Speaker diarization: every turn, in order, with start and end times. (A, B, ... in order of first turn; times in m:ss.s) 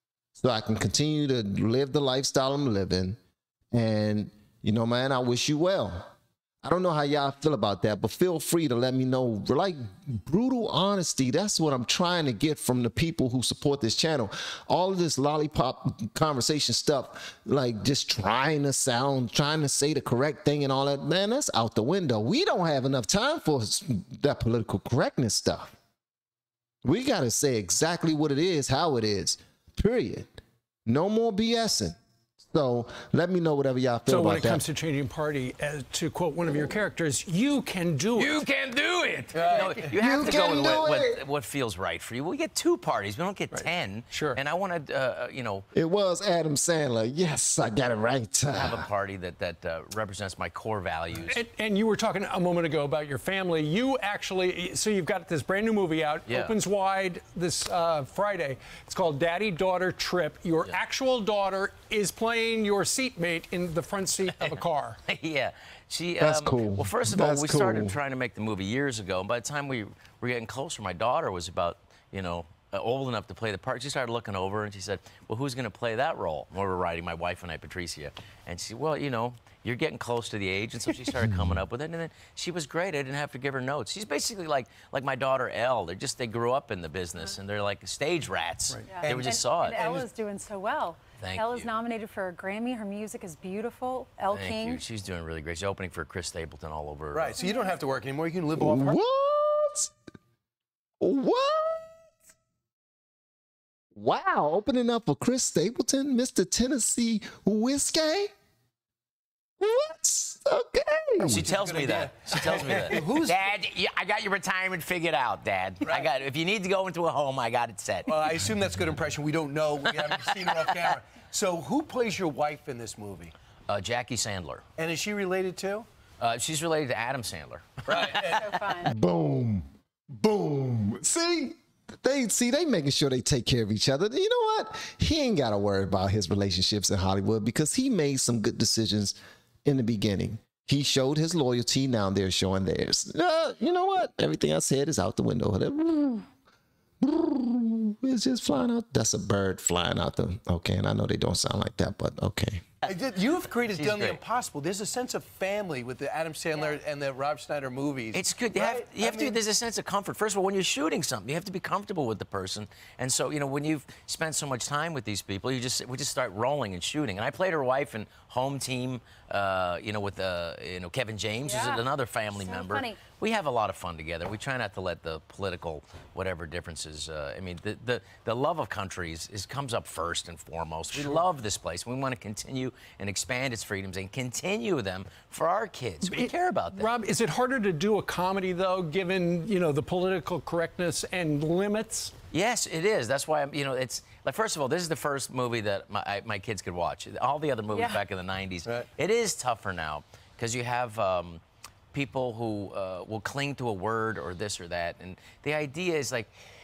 0:00.4-0:03.2 A
0:03.7-0:06.1 A
0:06.6-0:25.8 A
0:26.8-0:30.3 A
0:30.9-0:34.6 A
0:34.1-0:38.4 B
0:38.1-0:45.6 C
0:39.3-0:40.0 D
0:40.0-0:41.2 A
0:43.5-0:44.4 B
0:45.7-0:48.8 A
0:48.5-0:51.4 C
0:51.2-1:05.0 B
0:56.2-0:56.5 C
1:04.4-1:29.8 C
1:06.2-1:07.9 A
1:28.9-1:34.8 E
1:28.9-1:30.1 D
1:31.2-1:31.7 C
1:34.3-1:37.4 C
1:37.1-1:39.0 D
1:37.3-1:37.8 E
1:38.6-1:39.9 A
1:41.0-1:41.9 A
1:43.9-1:48.3 A
1:49.6-1:51.5 A
1:51.2-1:58.2 C
1:51.4-1:53.4 D
1:58.1-2:03.3 D
1:59.8-2:01.0 C
2:03.7-2:04.6 C
2:04.8-2:05.9 D
2:06.2-2:08.6 C
2:07.9-2:08.4 D
2:08.3-2:08.9 E
2:08.8-2:26.2 A
2:27.0-2:32.7 A
2:32.8-2:39.4 D
2:33.7-2:34.2 C
2:38.1-3:06.9 C
2:51.4-2:53.0 E
3:06.0-3:12.1 B
3:12.3-3:21.4 C
3:17.7-3:18.0 E
3:21.9-3:26.3 C